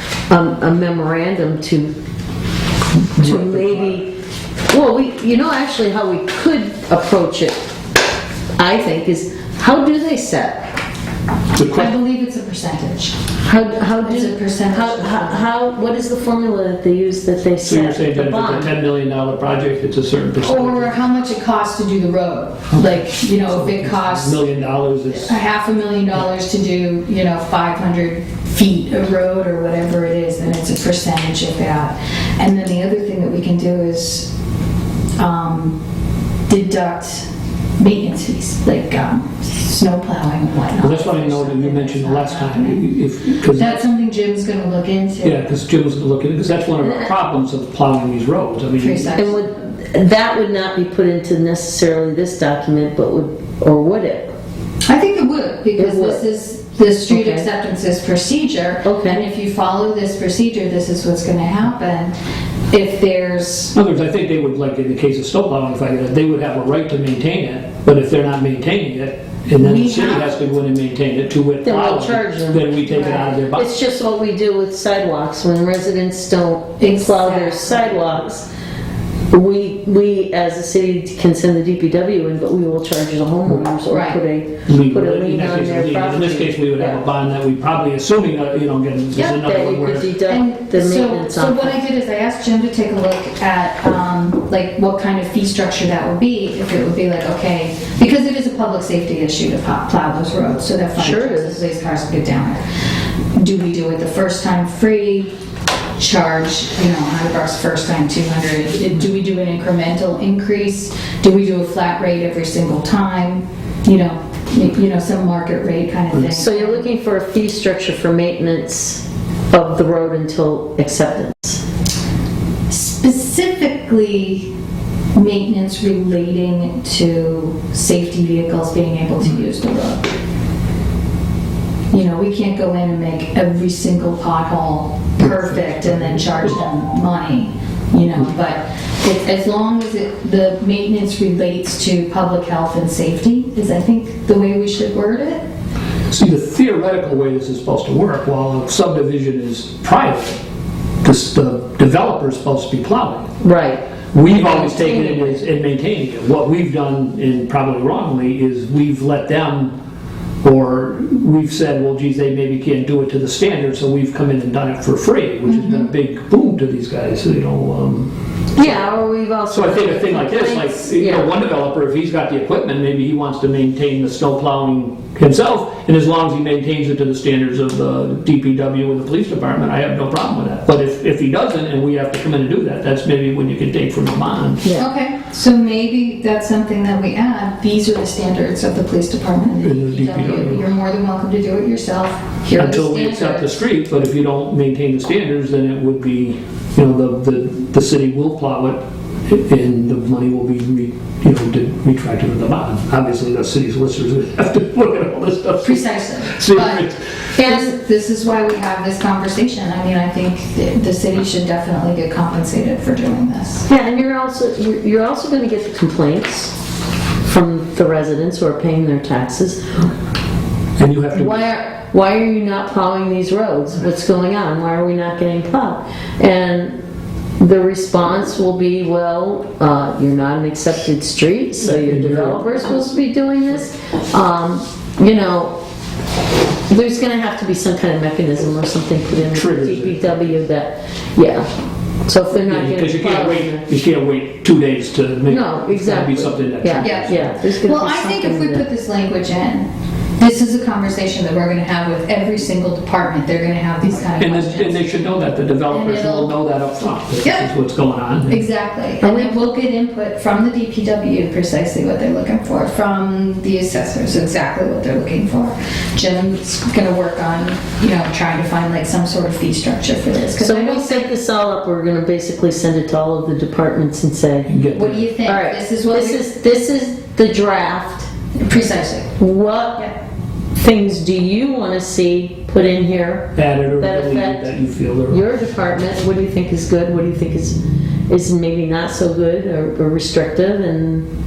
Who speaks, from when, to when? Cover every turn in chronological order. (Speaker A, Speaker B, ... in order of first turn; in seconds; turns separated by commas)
Speaker A: 0.3-1.9, Speaker B: 3.0-4.0, Speaker A: 3.1-4.1, Speaker A: 4.7-7.6, Speaker A: 8.6-10.7, Speaker B: 11.5-11.9, Speaker C: 11.7-13.2, Speaker A: 13.4-18.7, Speaker C: 14.0-15.5, Speaker B: 17.6-21.0, Speaker C: 20.4-24.5, Speaker B: 23.5-25.4, Speaker C: 25.1-34.3, Speaker C: 35.2-35.8, Speaker C: 36.5-37.3, Speaker C: 37.8-42.9, Speaker B: 40.8-43.8, Speaker C: 43.4-45.4, Speaker B: 45.2-49.3, Speaker A: 46.8-47.1, Speaker C: 48.8-49.4, Speaker A: 49.1-54.4, Speaker C: 54.9-62.1, Speaker A: 55.8-56.2, Speaker A: 57.1-57.5, Speaker A: 58.9-59.2, Speaker C: 62.7-63.8, Speaker B: 63.7-73.7, Speaker C: 69.6-70.2, Speaker A: 69.7-70.2, Speaker A: 71.6-78.5, Speaker C: 72.8-73.4, Speaker C: 76.8-78.0, Speaker A: 79.3-87.0, Speaker C: 83.9-84.2, Speaker B: 84.7-90.2, Speaker A: 89.2-91.8, Speaker C: 90.3-102.6, Speaker A: 101.0-101.7, Speaker C: 103.3-105.3, Speaker C: 106.0-116.8, Speaker A: 116.1-121.6, Speaker C: 122.7-124.5, Speaker C: 125.2-130.1, Speaker C: 131.9-145.4, Speaker B: 135.3-136.5, Speaker B: 146.1-150.4, Speaker B: 151.0-153.3, Speaker A: 153.4-155.4, Speaker B: 154.1-159.7, Speaker B: 160.4-168.8, Speaker C: 165.4-165.9, Speaker A: 168.6-171.3, Speaker B: 169.5-184.7, Speaker A: 184.6-184.9, Speaker C: 184.7-193.6, Speaker B: 189.6-190.7, Speaker B: 192.6-207.6, Speaker C: 205.6-213.7, Speaker A: 213.7-216.5, Speaker A: 217.2-219.6, Speaker B: 220.8-221.5, Speaker A: 221.1-226.8, Speaker A: 227.4-235.6, Speaker B: 231.6-232.8, Speaker A: 236.7-241.5, Speaker B: 239.3-240.3, Speaker A: 242.1-243.7, Speaker B: 242.5-247.4, Speaker A: 245.3-248.7, Speaker C: 246.8-249.7, Speaker C: 250.2-254.8, Speaker B: 254.2-258.4, Speaker C: 255.7-256.4, Speaker C: 258.3-271.1, Speaker A: 259.0-259.4, Speaker A: 270.1-274.5, Speaker B: 274.5-275.1, Speaker C: 274.7-276.3, Speaker A: 275.2-278.1, Speaker C: 278.4-279.2, Speaker A: 279.2-279.9, Speaker A: 280.6-284.5, Speaker B: 283.4-285.3, Speaker A: 285.1-287.6, Speaker A: 288.1-291.1